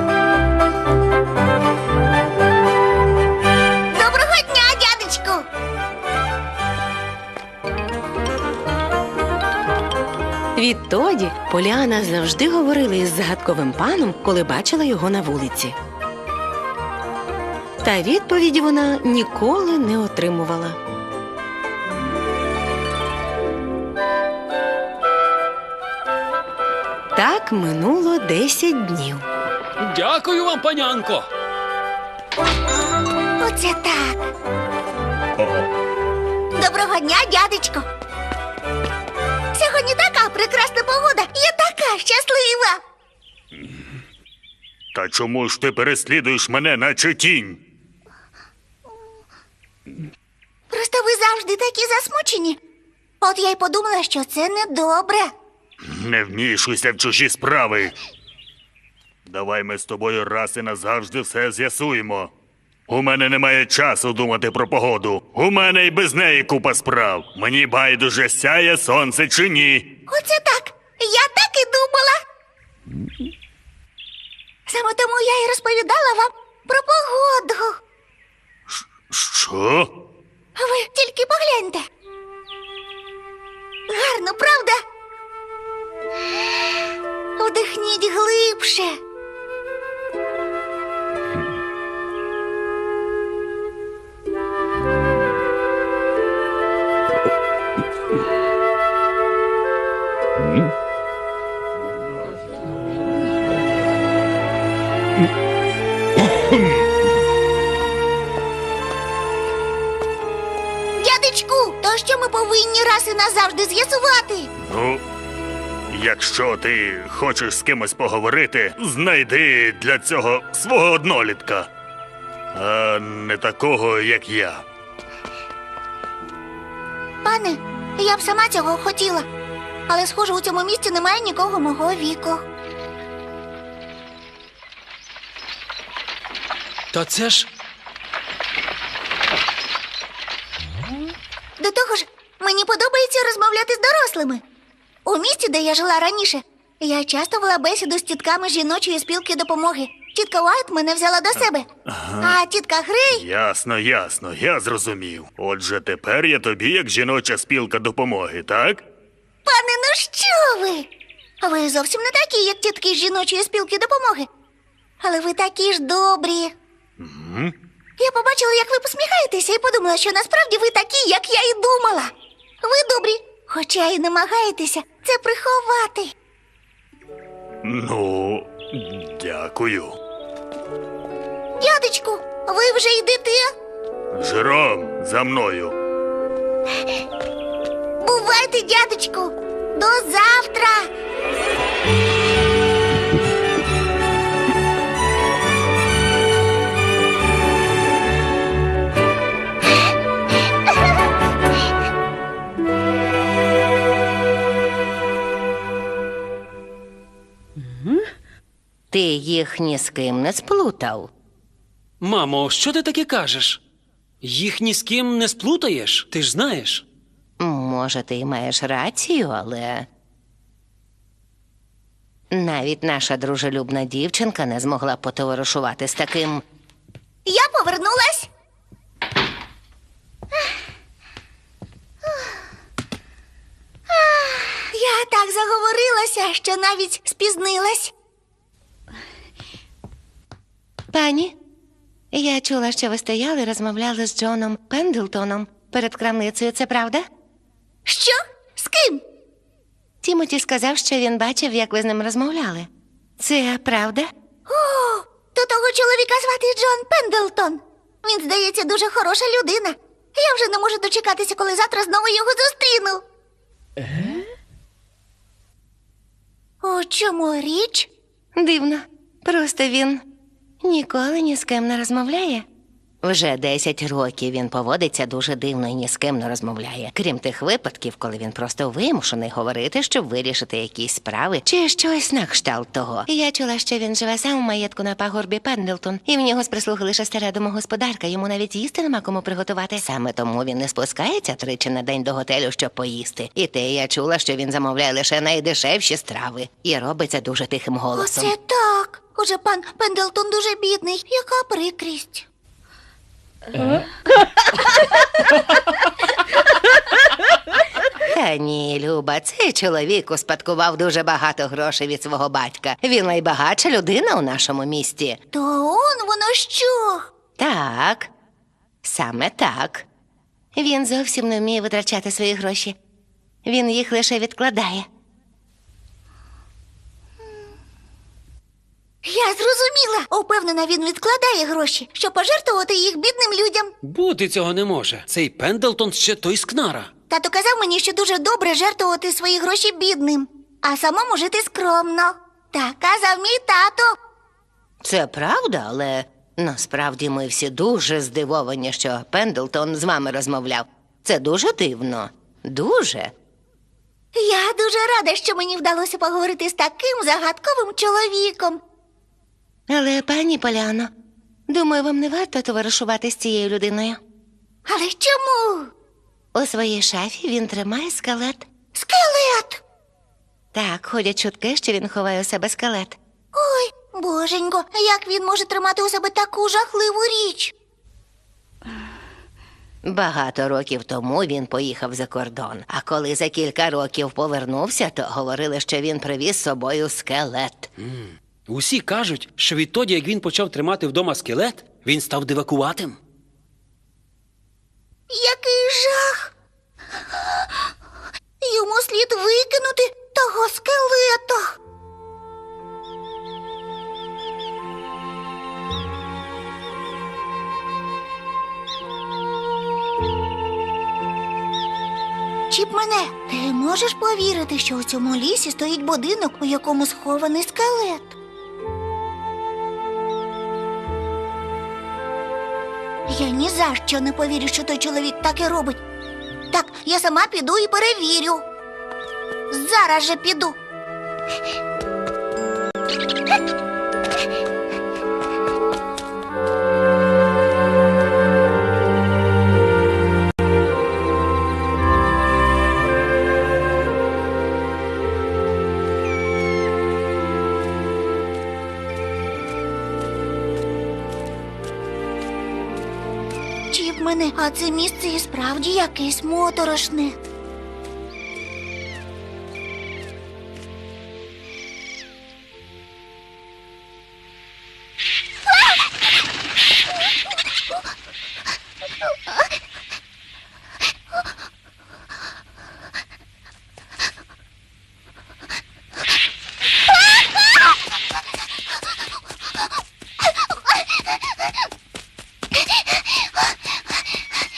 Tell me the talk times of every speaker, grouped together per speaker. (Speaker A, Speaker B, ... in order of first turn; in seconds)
Speaker A: 3.9-5.4, 33.4-34.3, 36.5-37.8, 39.5-42.8, 50.7-52.6, 53.2-55.3, 70.1-72.2, 74.7-77.8, 80.5-81.8, 83.9-84.8, 87.4-89.0, 111.0-114.5, 127.2-129.3, 129.9-132.4, 141.6-144.4, 145.0-151.7, 152.2-153.2, 159.4-160.9, 161.4-164.3, 165.0-166.5, 168.0-176.1, 181.6-183.5, 188.0-190.9, 227.2-228.3, 233.9-237.9, 247.8-249.0, 254.5-263.0, 266.6-267.9, 298.0-302.2, 315.3-317.1, 329.0-333.7, 337.1-343.9, 354.1-358.6, 364.6-365.7, 368.7-369.6, 373.3-377.5, 395.1-396.3, 398.4-401.5, 412.5-418.1, 423.1-425.8, 426.5-428.4, 429.5-430.6, 453.7-457.1
Speaker B: 10.5-15.8, 17.8-20.8, 27.1-29.5
Speaker C: 29.8-31.2, 136.9-137.5, 212.0-213.6, 214.2-216.8, 333.8-336.9, 387.8-393.0
Speaker D: 35.4-35.6, 44.9-47.6, 55.8-57.9, 59.2-62.3, 62.9-69.9, 78.7-79.9, 114.6-115.0, 115.9-121.7, 122.5-124.6, 151.8-152.4, 153.1-158.8, 167.0-167.5, 177.6-179.9, 184.1-185.7
Speaker E: 208.9-211.1, 217.4-219.9, 222.3-226.4, 240.9-241.3, 242.1-247.1, 250.0-254.1, 268.4-270.0, 270.6-272.5, 273.0-298.3, 308.0-315.2, 317.4-318.1, 318.8-319.9, 320.5-322.8, 323.4-324.9, 344.8-353.1, 359.7-360.9, 361.5-364.0, 366.3-368.4, 370.5-373.0, 379.8-387.7